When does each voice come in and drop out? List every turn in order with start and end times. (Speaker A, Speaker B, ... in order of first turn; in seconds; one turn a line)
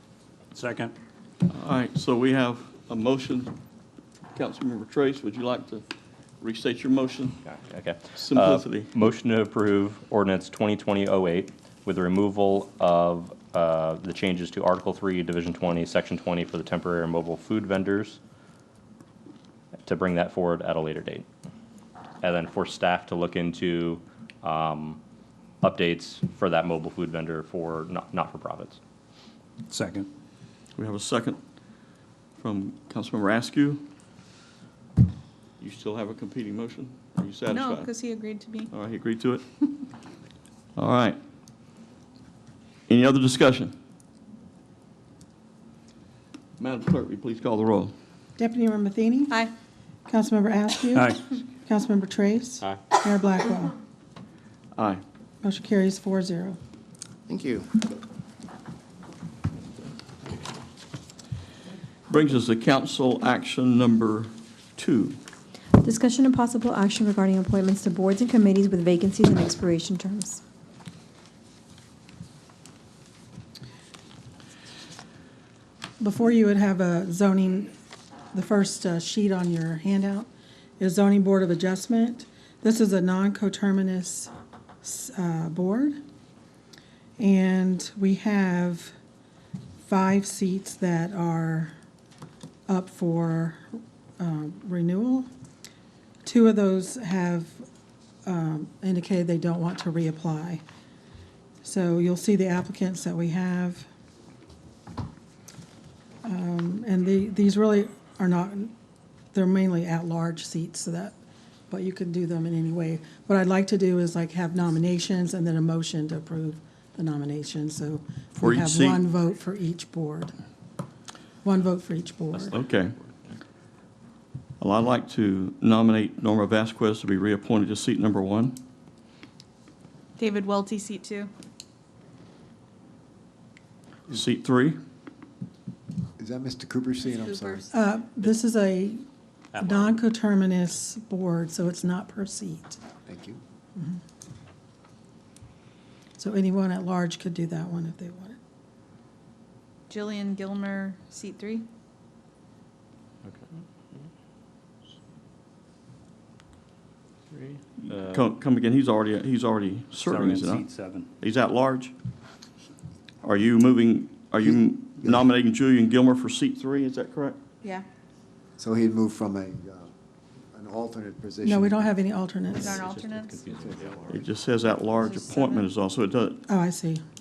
Speaker A: 0.5-0.9
Speaker B: 1.5-3.5
Speaker B: 4.3-5.8
Speaker B: 6.4-7.4
Speaker C: 7.4-18.2
Speaker B: 8.1-8.9
Speaker C: 19.8-21.2
Speaker C: 22.2-25.0
Speaker C: 25.6-28.8
Speaker A: 29.7-30.1
Speaker B: 30.8-31.4
Speaker B: 32.4-33.9
Speaker B: 35.6-37.9
Speaker D: 37.5-38.7
Speaker B: 38.7-39.4
Speaker B: 40.8-41.2
Speaker B: 42.9-43.7
Speaker B: 46.6-47.9
Speaker E: 48.4-49.4
Speaker E: 50.1-53.8
Speaker A: 51.0-51.2
Speaker B: 54.7-55.0
Speaker E: 55.4-56.6
Speaker B: 62.1-65.2
Speaker F: 65.8-70.4
Speaker E: 76.0-77.7
Speaker E: 78.3-84.3
Speaker E: 84.8-86.0
Speaker E: 87.2-88.9
Speaker E: 89.8-91.8
Speaker E: 92.7-95.3
Speaker E: 96.2-97.7
Speaker E: 98.2-100.6
Speaker E: 101.6-103.9
Speaker E: 106.2-108.7
Speaker E: 109.3-111.2
Speaker E: 111.7-120.3
Speaker B: 118.4-119.0
Speaker E: 121.4-122.6
Speaker C: 122.3-123.3
Speaker B: 122.6-122.9
Speaker B: 124.6-128.6
Speaker D: 130.2-131.3
Speaker B: 134.1-134.8
Speaker G: 136.2-137.6
Speaker D: 137.1-137.7
Speaker E: 137.7-139.0
Speaker C: 139.5-139.9
Speaker E: 139.6-142.8
Speaker G: 143.0-143.4
Speaker E: 146.2-148.4
Speaker D: 149.9-151.7
Speaker C: 153.2-154.0
Speaker C: 157.3-158.3
Speaker B: 157.8-160.7
Speaker A: 160.0-161.1
Speaker B: 161.2-161.9
Speaker B: 163.2-167.4
Speaker G: 164.4-165.3
Speaker G: 168.6-169.9
Speaker G: 170.5-172.0
Speaker E: 171.4-172.8
Speaker C: 172.5-174.2
Speaker D: 172.5-173.4
Speaker G: 173.6-173.9
Speaker B: 174.1-176.4
Speaker D: 175.0-175.6
Speaker E: 176.5-177.0